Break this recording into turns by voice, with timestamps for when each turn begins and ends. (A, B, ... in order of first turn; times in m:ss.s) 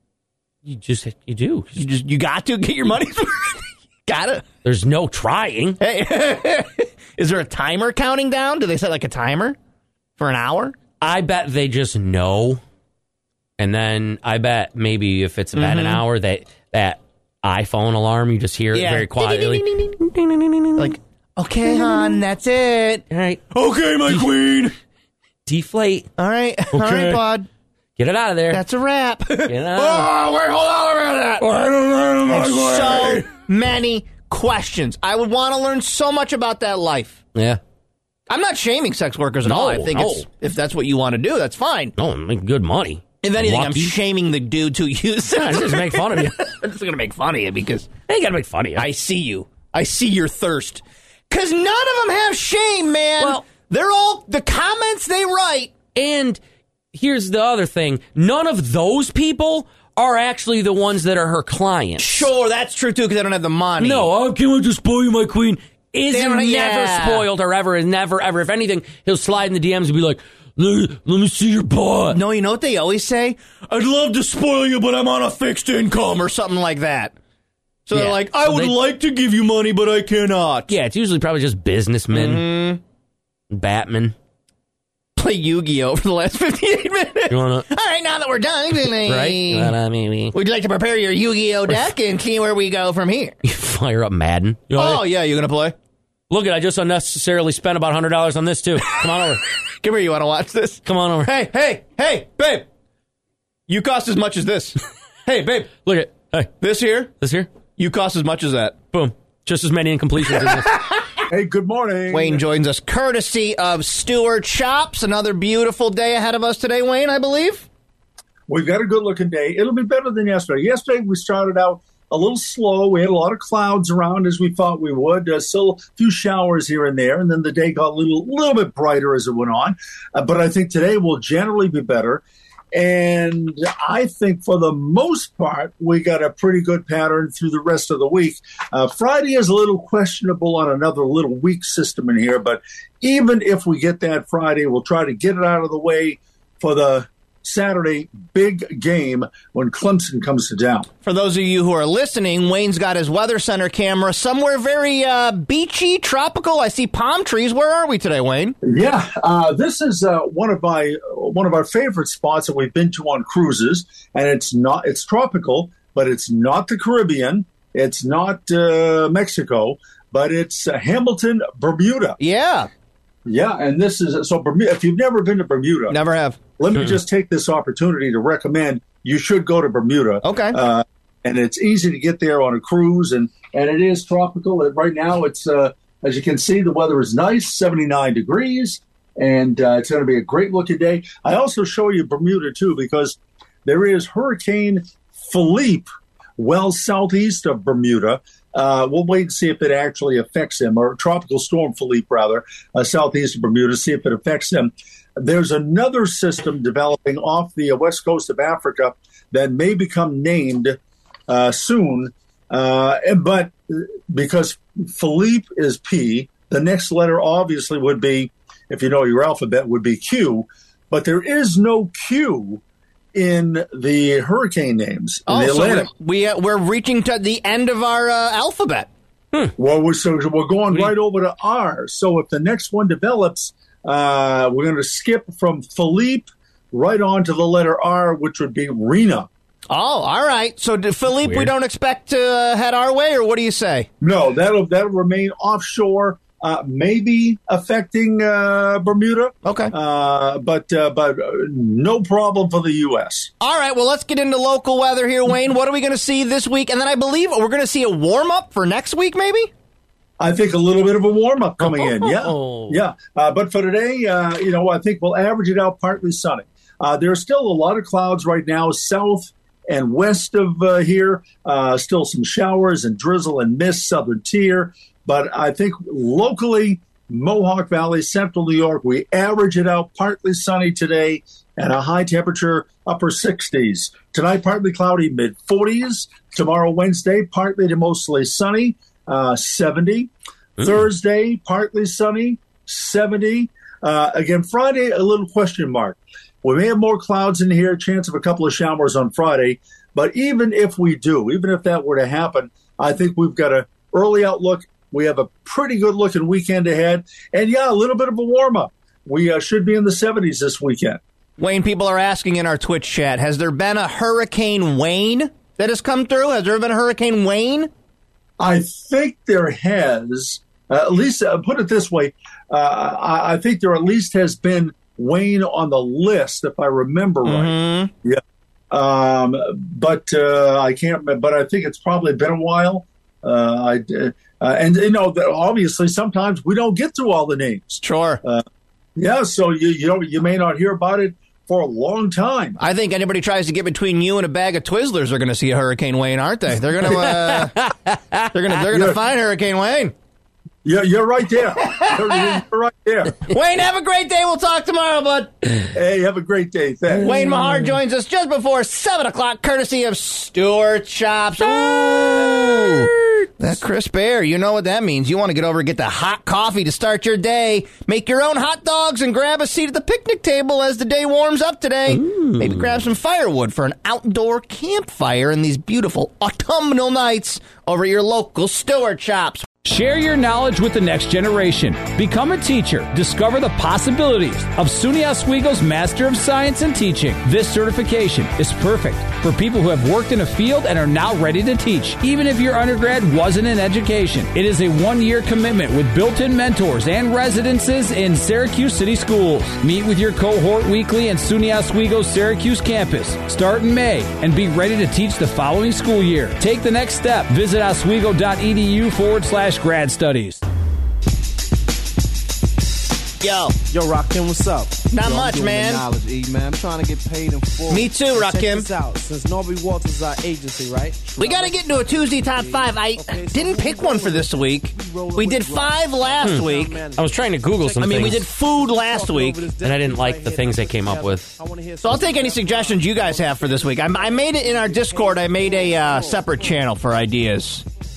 0:00.6-0:01.7 A
0:01.8-0:04.4 B
0:04.6-0:05.8 A
0:05.8-0:09.6 B
0:10.2-0:10.7 B
0:11.0-0:12.6 A
0:13.6-0:21.0 A
0:15.5-0:16.0 B
0:18.7-0:20.0 B
0:20.8-0:23.0 B
0:21.6-0:22.2 A
0:23.1-0:24.6 A
0:23.7-0:24.3 B
0:25.4-0:26.1 A
0:26.2-0:27.5 B
0:26.7-0:27.2 A
0:28.0-0:28.6 A
0:28.5-0:31.5 B
0:29.5-0:30.2 A
0:31.4-0:33.2 A
0:32.3-0:37.2 B
0:37.3-0:37.6 A
0:38.3-0:41.9 B
0:39.4-0:40.2 A
0:42.0-0:44.0 A
0:43.2-0:47.9 B
0:45.3-0:46.4 A
0:48.1-0:48.8 A
0:48.8-0:55.7 B
0:55.9-0:56.4 A
0:56.9-1:02.3 A
1:02.0-1:04.1 B
1:03.8-1:12.2 A
1:06.1-1:07.2 B
1:12.1-1:17.1 B
1:17.8-1:20.7 B
1:17.9-1:18.8 A
1:20.7-1:22.4 A
1:22.1-1:22.8 B
1:23.5-1:24.2 A
1:25.2-1:29.7 B
1:27.3-1:27.7 A
1:28.7-1:30.3 A
1:30.3-1:33.4 B
1:33.4-1:35.1 A
1:34.7-1:35.7 B
1:36.3-1:39.4 A
1:39.8-1:42.6 B
1:40.8-1:41.5 A
1:43.7-1:45.7 B
1:45.7-1:46.5 A
1:46.6-1:47.1 B
1:47.2-1:47.5 A
1:47.8-1:48.8 B
1:48.9-1:50.7 A
1:50.3-1:51.2 B
1:51.3-1:52.4 C
1:52.1-1:57.7 B
1:58.5-2:30.9 C
2:31.0-2:38.6 B
2:38.6-2:52.2 C
2:52.2-2:52.7 B
2:53.2-2:56.0 C
2:55.9-2:56.4 B
2:56.6-3:42.6 C
3:00.2-3:00.6 B
3:43.1-3:45.9 C
3:45.3-3:48.9 B
3:49.5-3:59.3 C
3:59.7-4:03.9 B
4:01.1-4:01.5 A
4:04.0-4:13.3 C
4:09.4-4:09.7 B
4:13.4-4:19.5 B
4:20.2-5:11.0 C
4:21.6-4:22.8 A
5:11.4-5:17.7 B
5:18.4-5:38.4 C
5:27.2-5:27.9 B
5:37.8-5:38.2 B
5:39.0-5:42.6 C
5:42.6-5:47.6 B
5:46.8-5:48.3 A
5:48.3-5:49.9 B
5:48.7-5:49.0 C
5:50.6-5:53.2 C
5:51.6-5:52.4 B
5:53.2-5:55.3 B
5:55.7-5:57.3 C
5:56.9-5:57.7 A
5:57.0-6:19.5 B
6:01.4-6:03.3 A
6:11.9-6:12.7 A
6:19.6-6:50.4 D
6:53.2-6:53.6 B
6:53.7-7:17.0 E
6:54.9-6:55.8 B
6:57.7-6:58.7 B
7:01.2-7:06.8 B
7:06.2-7:08.3 A
7:07.8-7:09.4 B
7:09.6-7:11.3 A
7:11.8-7:17.6 B